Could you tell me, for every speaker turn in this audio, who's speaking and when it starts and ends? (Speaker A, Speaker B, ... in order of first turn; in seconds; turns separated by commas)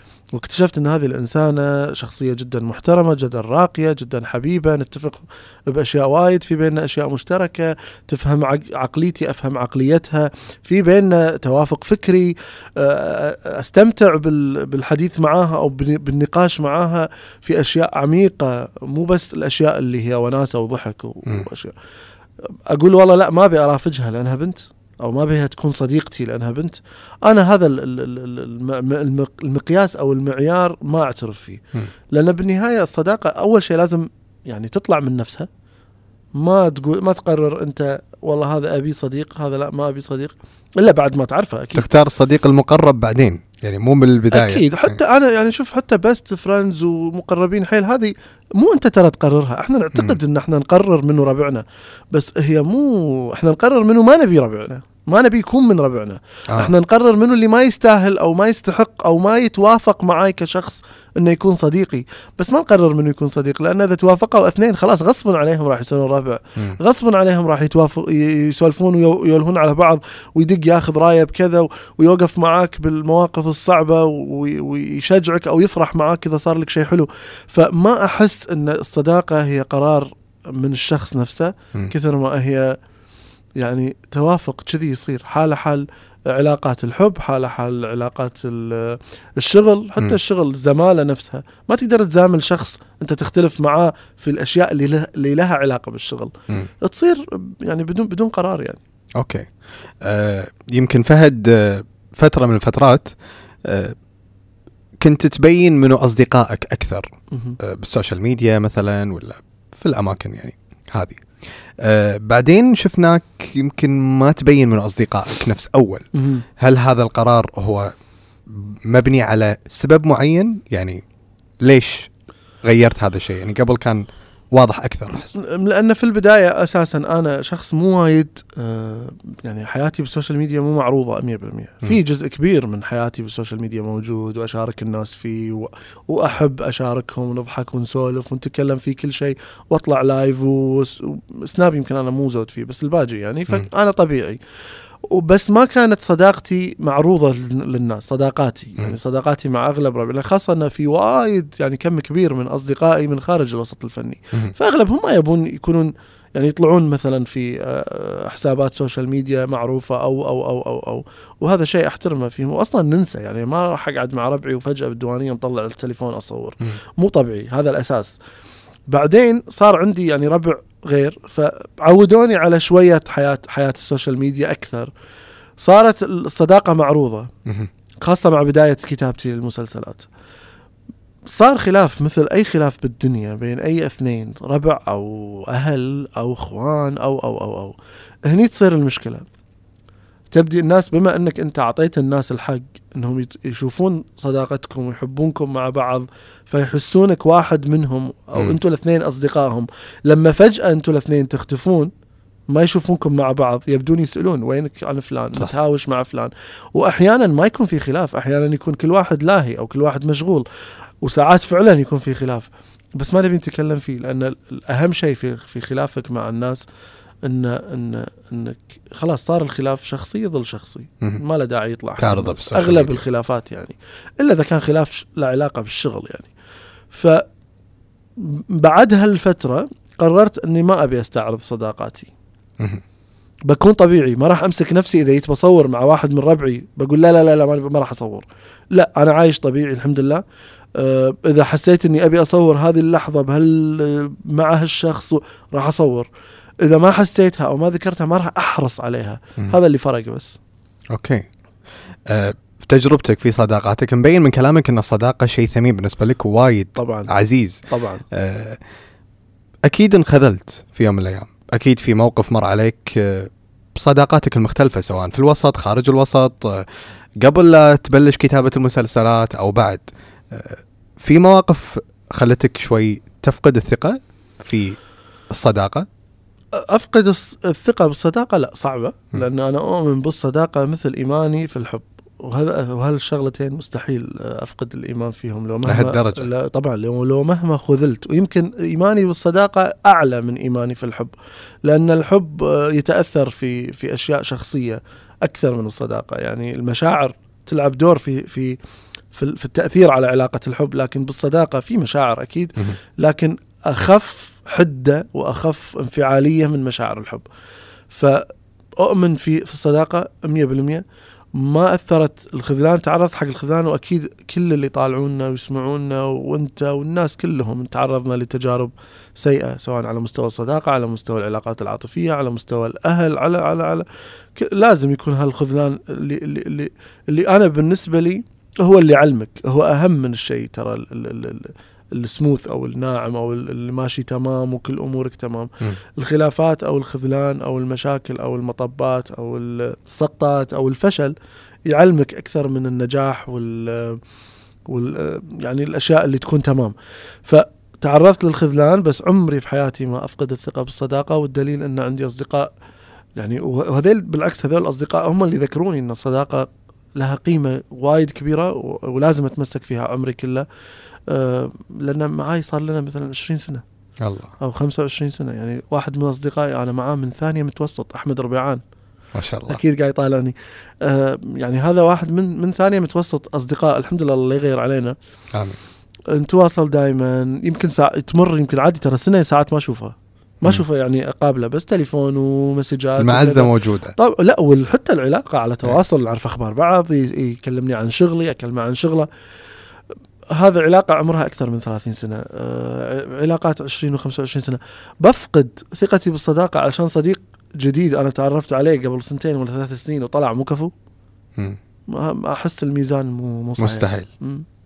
Speaker A: 0.3-21.7, Speaker A: 22.7-35.5, Speaker A: 36.4-41.9, Speaker B: 41.8-45.0, Speaker A: 44.3-82.8, Speaker A: 83.6-98.8, Speaker B: 99.2-99.5, Speaker B: 100.0-103.9, Speaker B: 105.0-107.1, Speaker A: 107.3-107.6, Speaker B: 107.6-111.2, Speaker B: 111.8-116.1, Speaker A: 116.1-116.4, Speaker B: 116.6-117.9, Speaker B: 118.5-121.0, Speaker B: 121.6-122.1, Speaker B: 122.6-125.3, Speaker A: 125.3-144.4, Speaker A: 145.1-168.2, Speaker A: 168.9-174.9, Speaker A: 175.6-177.3, Speaker A: 178.0-180.1, Speaker A: 181.3-189.2, Speaker A: 190.3-201.9, Speaker A: 202.5-210.4, Speaker A: 211.0-216.6, Speaker A: 217.2-226.3, Speaker B: 222.0-223.0, Speaker A: 226.9-227.2, Speaker A: 228.2-232.1, Speaker A: 233.5-240.2, Speaker A: 240.8-246.1, Speaker A: 246.6-250.4, Speaker B: 250.9-251.2, Speaker B: 252.1-258.6, Speaker A: 256.8-257.1, Speaker A: 257.7-258.0, Speaker B: 259.6-266.7, Speaker B: 267.2-274.8, Speaker B: 275.3-275.9, Speaker A: 276.5-291.1, Speaker B: 285.6-286.3, Speaker A: 291.6-298.6, Speaker A: 299.1-307.2, Speaker A: 307.9-310.8, Speaker A: 311.3-341.1, Speaker A: 341.7-344.0, Speaker A: 344.7-346.7, Speaker A: 347.2-352.5, Speaker A: 353.1-360.4, Speaker A: 361.1-363.6, Speaker B: 364.0-364.3, Speaker A: 364.4-368.6, Speaker B: 369.1-369.6, Speaker A: 369.5-374.9, Speaker A: 376.1-389.1, Speaker B: 383.0-383.9, Speaker A: 390.3-400.7, Speaker A: 401.9-404.4, Speaker B: 403.6-404.1